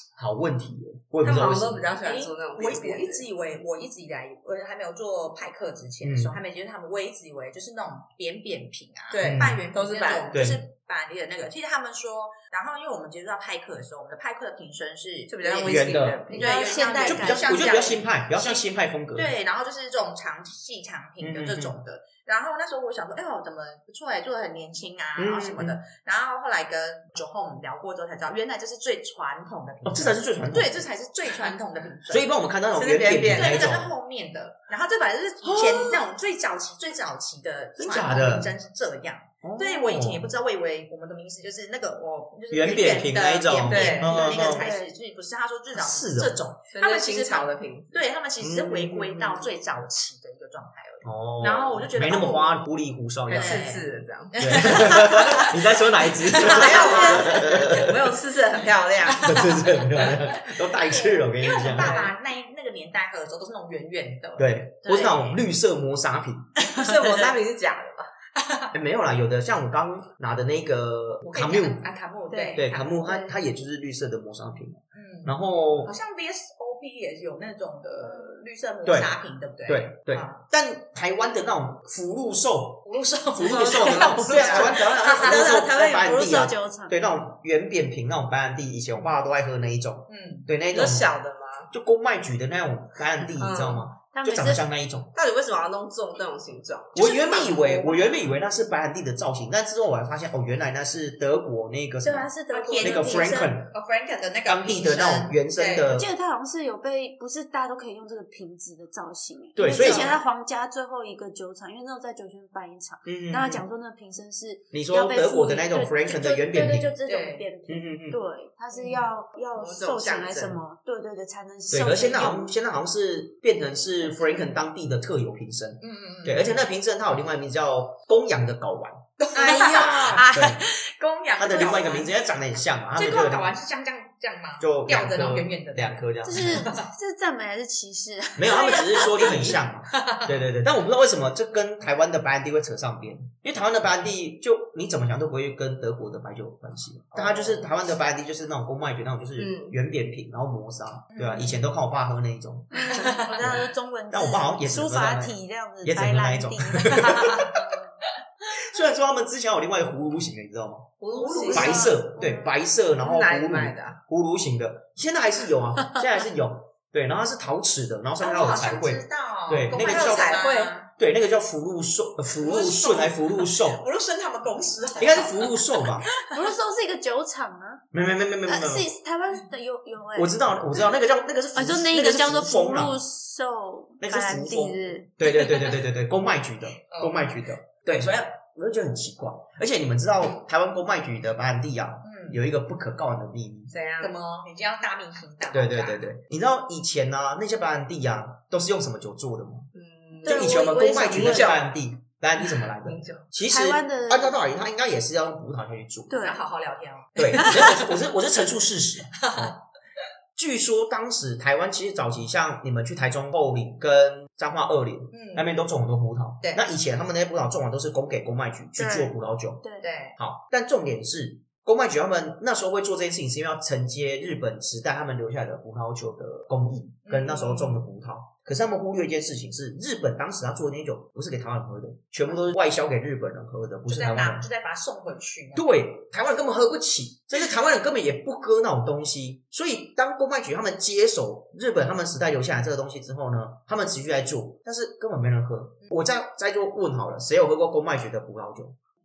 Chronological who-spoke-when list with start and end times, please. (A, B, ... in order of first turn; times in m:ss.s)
0:00.1-0:01.9 A
0:01.2-0:03.2 B
0:02.0-0:32.3 C
0:06.0-0:06.4 A
0:09.1-0:10.3 B
0:09.2-0:09.6 A
0:10.3-0:10.6 A
0:15.3-0:16.9 B
0:15.6-0:16.2 A
0:16.3-0:17.7 D
0:17.0-0:19.3 A
0:21.2-0:21.8 A
0:25.2-0:25.8 A
0:29.8-0:30.8 A
0:32.1-0:33.9 A
0:32.7-0:33.7 B
0:33.3-0:52.6 C
0:35.4-0:36.1 A
0:37.8-0:38.5 A
0:39.4-0:40.3 A
0:42.5-0:44.7 A
0:43.6-0:44.2 B
0:44.1-0:44.9 D
0:45.7-0:46.3 A
0:46.7-0:48.0 B
0:48.4-0:49.5 A
0:51.0-0:53.6 A
0:53.3-0:55.5 B
0:53.3-0:55.4 C
0:54.4-0:58.1 A
0:56.3-0:59.4 B
0:56.3-0:57.3 C
0:56.8-0:57.3 D
0:59.1-1:02.0 A
0:59.3-1:05.4 C
1:01.7-1:02.1 B
1:04.4-1:06.5 A
1:06.7-1:08.1 B
1:06.8-1:07.3 C
1:08.3-1:08.7 C
1:08.7-1:11.8 A
1:11.3-1:13.0 C
1:12.3-1:13.3 D
1:12.6-1:15.9 A
1:14.9-1:20.4 C
1:18.0-1:18.3 D
1:18.8-1:19.1 A
1:19.6-1:31.1 A
1:22.8-1:25.6 C
1:23.4-1:24.7 B
1:24.1-1:27.0 D
1:30.1-1:30.5 C
1:30.7-1:31.7 B
1:31.7-1:35.1 A
1:33.4-1:33.8 B
1:34.1-1:34.6 D
1:35.1-1:37.9 B
1:36.9-1:43.7 A
1:37.3-1:38.0 C
1:42.0-1:43.5 D
1:42.5-1:45.9 C
1:44.4-1:46.1 A
1:45.8-2:02.5 D
1:49.6-1:50.1 A
1:49.6-1:50.2 C
1:53.0-1:53.6 A
1:54.7-1:56.9 A
1:57.0-1:57.4 C
1:57.7-1:58.2 A
1:58.7-1:59.1 C
1:59.5-2:00.6 B
2:01.7-2:10.6 A
2:05.8-2:06.6 C
2:09.3-2:12.1 C
2:09.3-2:10.6 D
2:11.4-2:13.5 A
2:12.9-2:16.9 C
2:14.6-2:16.6 A
2:16.2-2:19.6 D
2:18.4-2:37.6 A
2:18.5-2:20.3 C
2:27.1-2:27.6 C
2:29.4-2:29.8 B
2:31.1-2:31.6 C
2:32.7-2:37.9 D
2:32.9-2:33.4 C
2:38.5-2:50.4 A
2:41.0-2:41.9 B
2:41.1-2:42.0 C
2:41.3-2:42.5 D
2:43.0-2:44.0 B
2:48.2-2:50.9 C
2:49.7-2:50.7 B
2:51.0-2:53.8 A
2:52.4-2:56.4 C
2:55.0-2:56.1 A
2:56.2-2:57.8 D
2:57.9-2:58.9 A
2:58.5-3:00.8 D
3:00.1-3:03.0 A
3:01.5-3:05.1 D
3:04.0-3:13.7 A
3:06.9-3:07.3 C
3:12.0-3:12.4 C
3:13.7-3:14.1 B
3:14.0-3:16.1 C
3:15.5-3:19.7 A
3:19.7-3:21.6 B
3:20.2-3:21.5 D
3:20.2-3:26.2 A
3:22.8-3:23.2 B
3:23.5-3:24.4 D
3:26.1-3:26.4 D
3:26.2-3:27.8 C
3:27.2-3:29.6 A
3:27.4-3:27.8 D
3:29.1-3:29.6 C
3:30.4-3:39.6 A
3:35.1-3:35.6 C
3:38.8-3:39.9 D
3:39.8-3:40.2 C
3:40.2-3:54.5 A
3:47.0-3:47.9 C
3:53.9-3:55.7 C
3:55.5-4:08.8 A